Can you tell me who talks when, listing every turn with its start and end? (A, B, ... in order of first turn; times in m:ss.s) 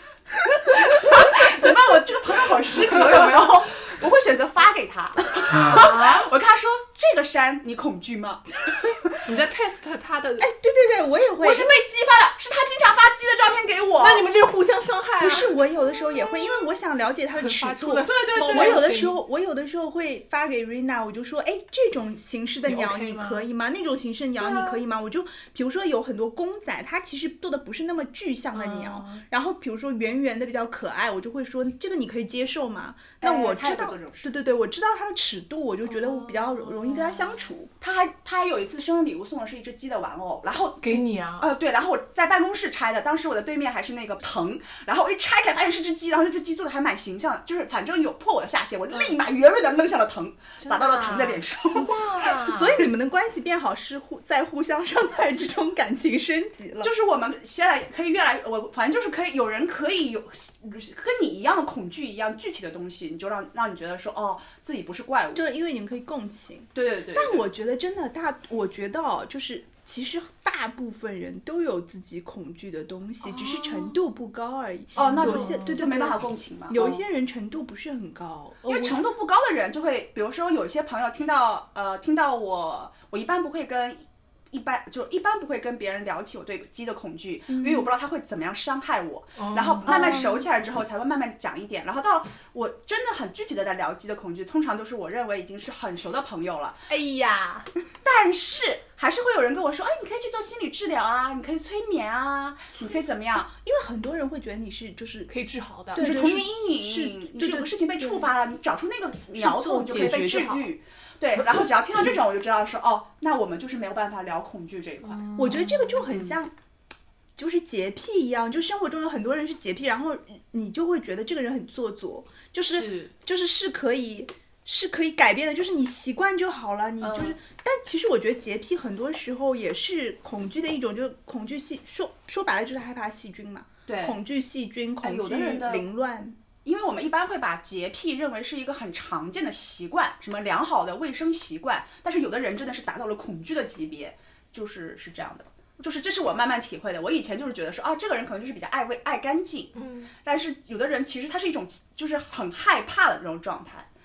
0:00.4-0:09.0 A
0:09.2-0:10.5 B
0:10.4-0:11.7 C
0:11.4-0:14.3 A
0:14.0-0:15.6 B
0:15.2-0:37.7 C
0:17.3-0:19.2 B
0:18.0-0:18.8 A
0:22.7-0:23.5 B
0:24.4-0:24.8 A
0:28.5-0:29.2 B
0:33.2-0:34.3 A
0:35.9-0:37.5 B
0:37.8-0:52.0 A
0:40.8-0:41.5 B
0:50.6-0:52.9 B
0:52.2-0:56.9 C
0:56.8-1:05.4 A
1:05.4-1:19.0 C
1:06.7-1:07.5 A
1:13.2-1:13.9 A
1:15.0-1:17.0 A
1:15.0-1:15.9 B
1:18.7-1:36.9 A
1:27.5-1:27.9 C
1:29.4-1:30.2 B
1:29.8-1:30.5 C
1:36.9-1:37.7 B
1:38.0-1:43.5 A
1:43.5-1:45.3 C
1:45.3-1:46.1 B
1:45.9-1:48.3 C
1:46.0-1:55.2 A
1:49.4-1:50.6 B
1:49.5-1:50.3 C
1:55.0-1:56.2 B
1:55.4-1:56.5 C
1:57.4-2:16.4 C
2:02.7-2:03.1 B
2:07.0-2:07.4 A
2:13.9-2:14.2 A
2:15.0-2:15.9 A
2:16.6-2:29.7 A
2:29.8-2:30.1 B
2:30.2-2:33.9 A